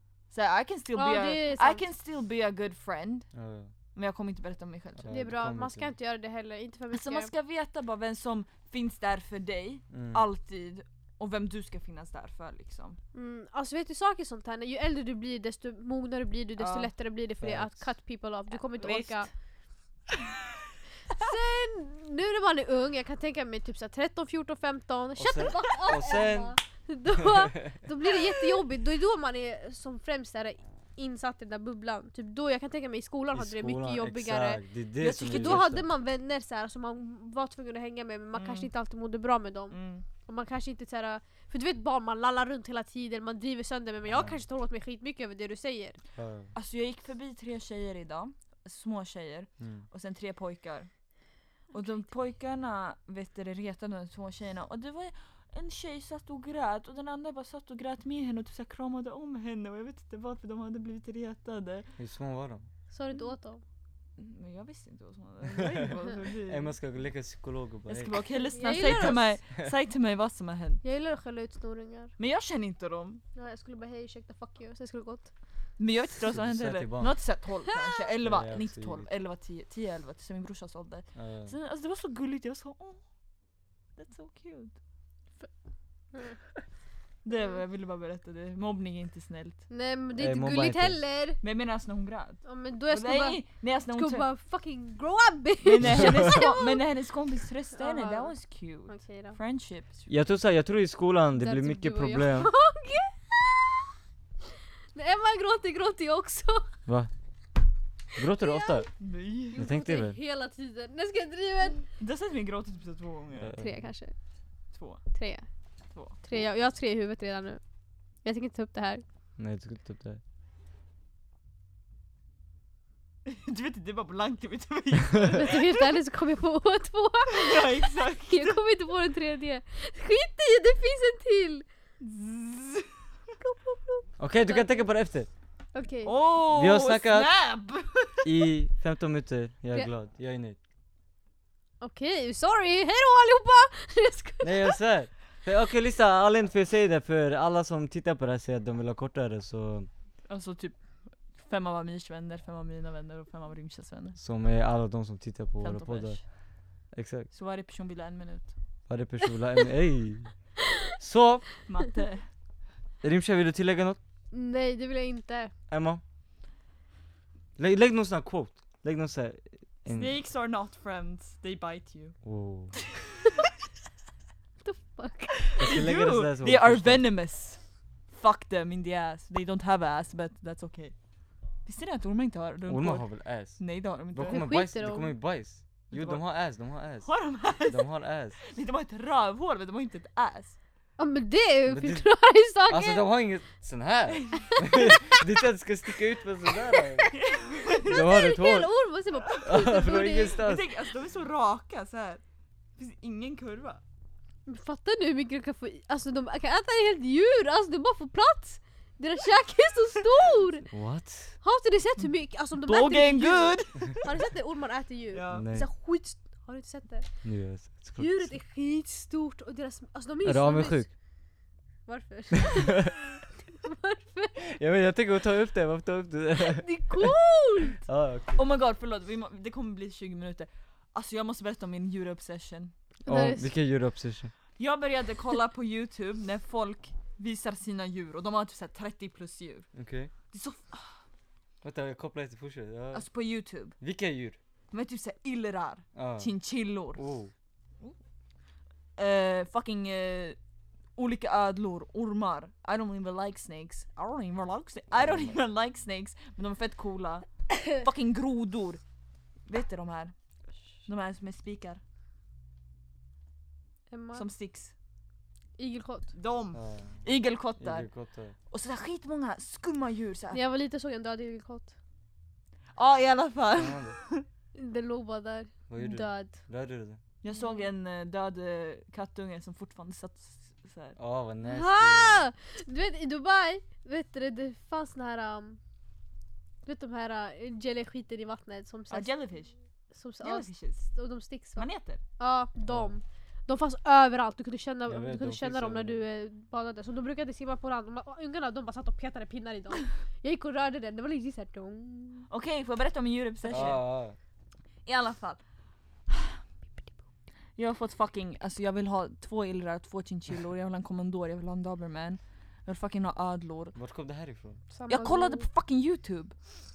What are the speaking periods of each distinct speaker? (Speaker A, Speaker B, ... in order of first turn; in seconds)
Speaker A: 0.3-3.3, 4.0-5.1, 6.9-13.0, 16.6-16.9, 18.5-19.3, 35.0-35.7, 38.3-38.7, 39.7-40.1, 46.5-50.9, 51.7-61.9, 64.2-66.7, 67.9-70.8, 72.2-73.2, 75.8-83.0, 84.0-84.7, 87.2-89.6, 91.4-94.3, 95.6-100.1, 109.0-109.6, 112.0-113.6, 114.7-115.0, 115.9-116.2, 123.3-125.9, 127.3-128.6, 132.0-133.0, 136.1-138.3, 150.3-154.2, 155.6-156.2, 157.3-158.5, 161.7-162.3, 169.9-172.2, 175.5-180.9, 181.7-184.5, 185.9-186.2, 187.0-190.6, 194.1-194.6, 197.1-198.0, 200.3-202.2, 202.8-203.8, 212.6-214.1, 215.1-215.5, 228.4-232.7, 234.6-239.7, 240.3-241.0, 242.9-243.8, 244.7-247.0, 249.0-250.4, 251.0-258.8, 259.5-260.1, 260.9-261.8, 264.1-264.7, 266.1-267.9, 268.5-270.4, 272.8-274.3, 277.2-281.0, 288.9-289.5, 290.2-290.9, 291.5-292.0, 302.3-303.9, 304.9-305.4, 307.6-313.7, 314.9-316.4
Speaker B: 0.9-1.9, 5.1-7.3, 13.1-19.3, 21.1-34.6, 35.2-46.0, 51.7-52.0, 62.9-63.6, 68.5-69.4, 70.8-72.1, 73.3-75.3, 87.3-87.6, 89.7-91.4, 92.4-96.8, 97.8-98.3, 98.9-99.4, 101.3-103.9, 104.9-106.7, 108.2-108.9, 109.5-111.9, 113.6-114.2, 115.1-115.5, 116.2-117.6, 118.2-119.0, 125.2-131.7, 133.4-134.7, 135.7-136.1, 141.8-144.8, 164.3-165.5, 174.6-175.6, 184.3-185.2, 191.0-193.1, 194.6-195.1, 196.7-197.1, 197.8-200.4, 204.5-210.7, 211.4-217.1, 218.0-220.9, 221.9-224.4, 226.4-227.8, 233.1-233.5, 263.9-264.3, 265.6-266.1, 270.3-271.7, 274.6-276.4, 277.4-277.7, 281.5-285.6, 286.6-289.2, 289.9-291.7, 292.2-302.3, 314.7-315.5
Speaker C: 3.3-3.7, 5.0-5.9, 9.9-10.2, 17.4-17.9, 25.2-26.6, 33.3-35.9, 44.1-44.4, 46.2-46.5, 49.6-49.9, 62.0-62.7, 66.5-68.1, 68.8-69.7, 76.3-77.2, 78.2-79.1, 81.2-81.5, 90.2-91.0, 95.8-96.4, 100.1-102.5, 106.9-107.1, 108.2-108.9, 109.5-110.2, 113.3-113.9, 119.4-120.2, 134.2-135.3, 136.5-137.3, 138.2-140.6, 144.4-149.9, 154.2-156.3, 156.9-157.3, 158.9-160.5, 161.0-161.6, 163.0-164.0, 165.7-166.0, 167.6-170.1, 172.2-172.7, 175.6-177.1, 182.7-188.4, 191.7-192.1, 192.7-197.1, 197.8-198.7, 199.4-200.7, 210.7-211.4, 215.3-215.7, 217.2-218.4, 220.2-220.9, 224.5-227.1, 227.8-228.4, 233.1-234.3, 239.7-240.1, 241.6-243.1, 243.8-244.4, 245.9-246.3, 246.9-247.3, 255.0-255.4, 266.5-268.4, 273.5-274.0, 275.7-277.0, 281.0-282.2, 292.7-292.9, 294.9-296.0, 303.5-304.2, 313.8-314.6